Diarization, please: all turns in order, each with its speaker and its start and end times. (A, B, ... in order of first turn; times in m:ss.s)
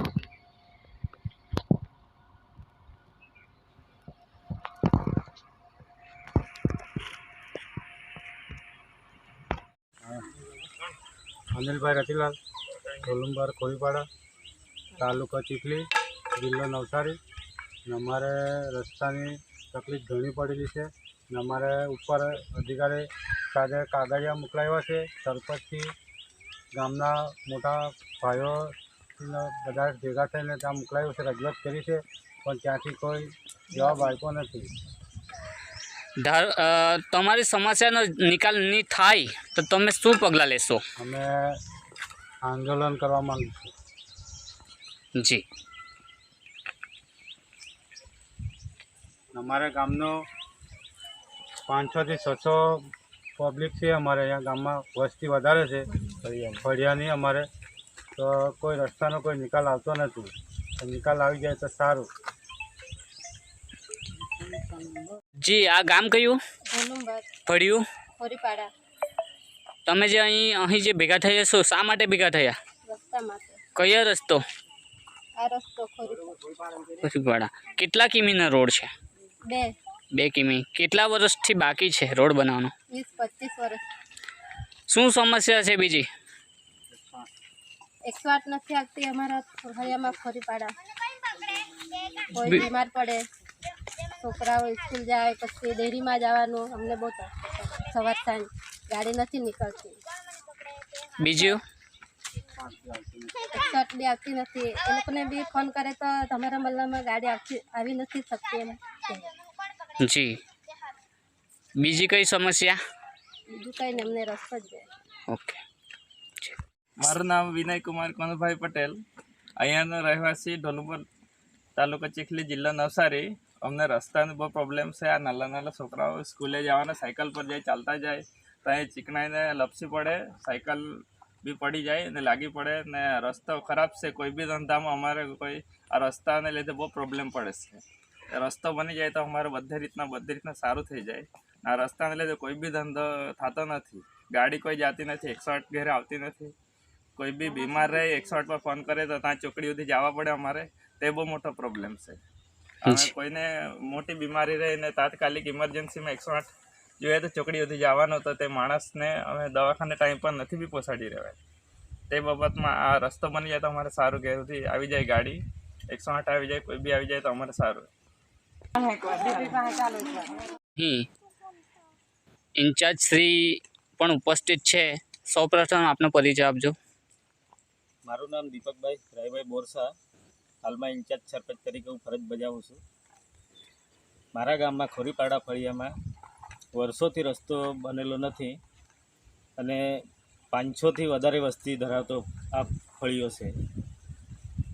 0:11.5-0:12.4 A
0:13.0-0:14.0 A
0:15.0-0:17.2 A
0:17.8-0:25.9 A
0:26.7-0:34.7 A
0:36.2-0:40.8 B
0:41.0-0:41.5 A
0:42.4-0:43.7 A
0:45.2-0:45.4 B
0:49.3-0:50.2 A
0:51.7-0:55.9 A
0:56.6-0:57.5 A
0:58.2-1:02.1 A
1:05.4-1:06.4 B
1:06.7-1:07.2 C
1:07.5-1:07.8 B
1:08.2-1:08.7 C
1:09.8-1:12.6 B
1:12.9-1:13.6 C
1:13.7-1:14.4 B
1:15.4-1:16.4 C
1:17.0-1:18.9 B
1:19.4-1:19.8 C
1:20.1-1:22.7 B
1:22.9-1:23.8 C
1:24.9-1:26.0 B
1:28.0-1:30.8 C
1:32.3-1:33.2 C
1:32.4-1:32.6 B
1:34.2-1:40.0 C
1:41.2-1:41.6 B
1:42.7-1:43.3 A
1:43.4-1:49.3 C
1:50.0-1:50.4 B
1:51.8-1:52.8 B
1:53.5-1:54.9 C
1:55.3-1:55.6 B
1:57.0-1:58.9 D
1:59.6-2:01.0 D
2:01.8-2:10.8 D
2:11.5-2:17.8 D
2:18.4-2:26.5 D
2:27.2-2:32.1 D
2:32.8-2:33.1 B
2:32.9-2:36.5 D
2:37.0-2:41.3 D
2:42.1-2:45.4 D
2:45.9-2:47.8 D
2:50.8-2:51.1 B
2:52.6-2:56.7 B
2:58.0-2:59.9 E
3:00.6-3:02.8 E
3:04.3-3:05.9 E
3:06.7-3:08.6 E
3:09.6-3:09.8 E
3:10.5-3:13.5 E